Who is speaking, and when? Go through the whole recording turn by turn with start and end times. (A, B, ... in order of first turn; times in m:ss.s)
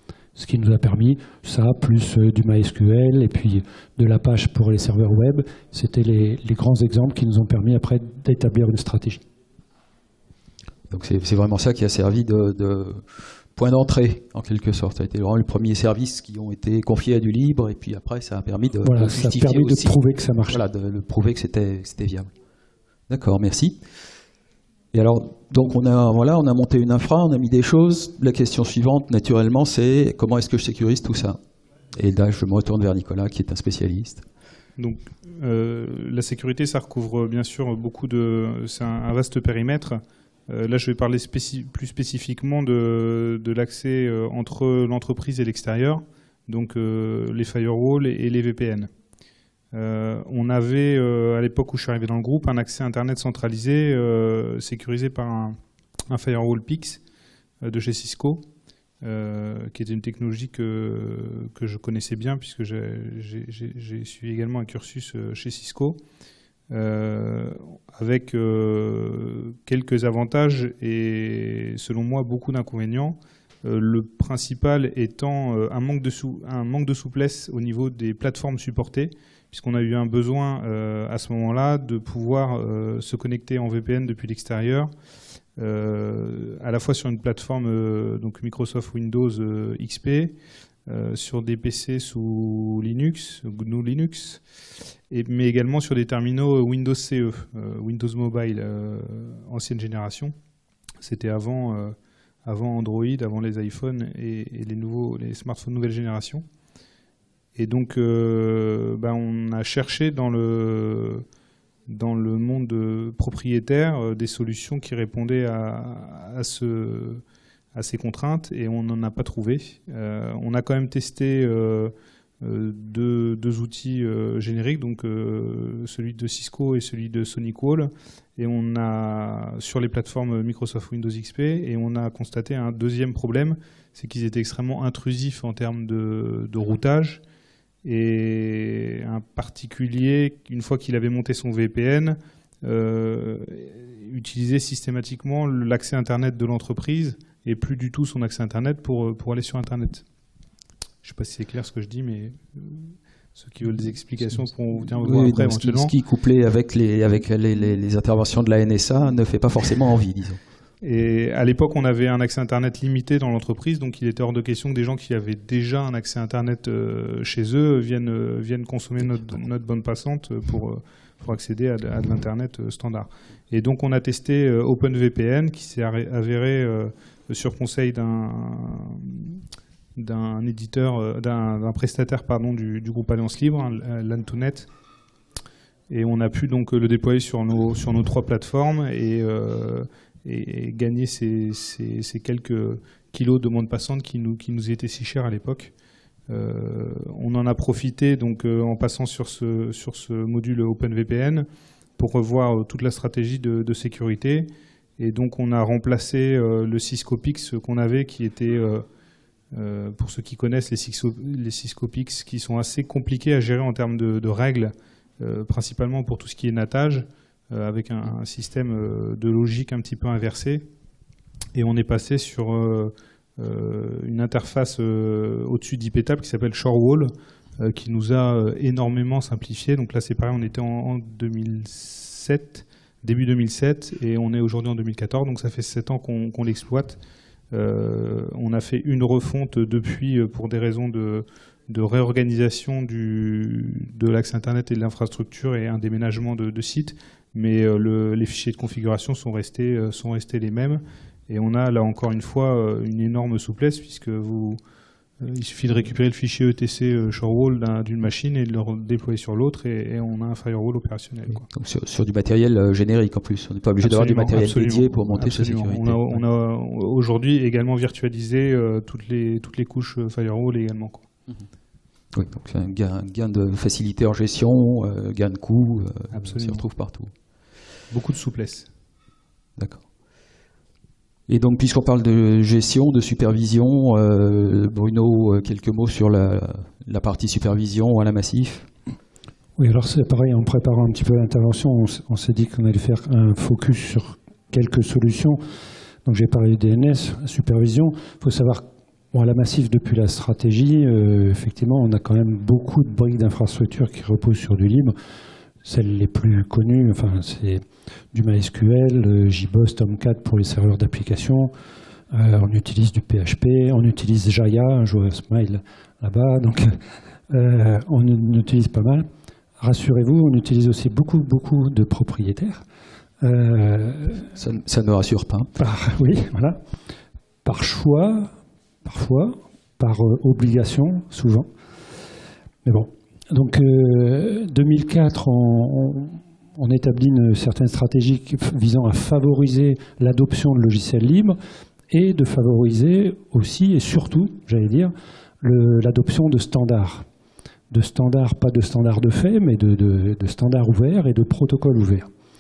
0:00.4-0:09.2 A
0:10.9-0:20.0 B
0:18.8-0:20.6 A
0:20.5-0:22.3 B
0:23.1-0:23.8 B
0:24.9-0:31.4 B
0:32.0-0:34.2 B
0:34.8-0:48.9 C
0:49.7-0:55.6 C
0:56.1-0:57.0 C
0:57.6-0:58.5 C
0:59.0-1:06.0 C
1:06.7-1:24.9 C
1:25.6-1:30.4 C
1:30.9-1:34.4 C
1:35.1-1:40.3 C
1:41.0-1:46.4 C
1:47.6-1:51.2 C
1:51.9-1:57.2 C
1:57.7-2:17.2 C
2:17.8-2:30.0 C
2:31.0-2:35.9 C
2:34.9-2:40.4 B
2:40.8-2:59.4 C
3:00.0-3:04.7 C
3:05.9-3:15.7 C
3:16.3-3:28.8 C
3:29.5-3:40.7 C
3:41.6-3:57.0 C
3:57.5-4:14.6 C
4:15.2-4:21.5 C
4:21.4-4:26.2 B
4:23.8-4:31.1 C
4:32.1-4:37.1 B
4:36.1-4:36.6 C
4:37.9-4:38.7 C
4:39.6-4:39.8 B
4:41.3-4:48.7 B
4:49.6-4:55.4 A
4:56.1-5:05.0 A
5:05.6-5:11.5 A
5:12.1-5:19.1 A
5:19.6-5:22.6 A
5:23.2-5:24.3 A
5:24.4-5:25.5 B
5:25.6-5:26.6 A
5:27.4-5:28.3 A
5:28.8-5:31.5 A
5:32.6-5:41.4 A
5:41.9-5:47.1 A
5:47.7-5:52.1 A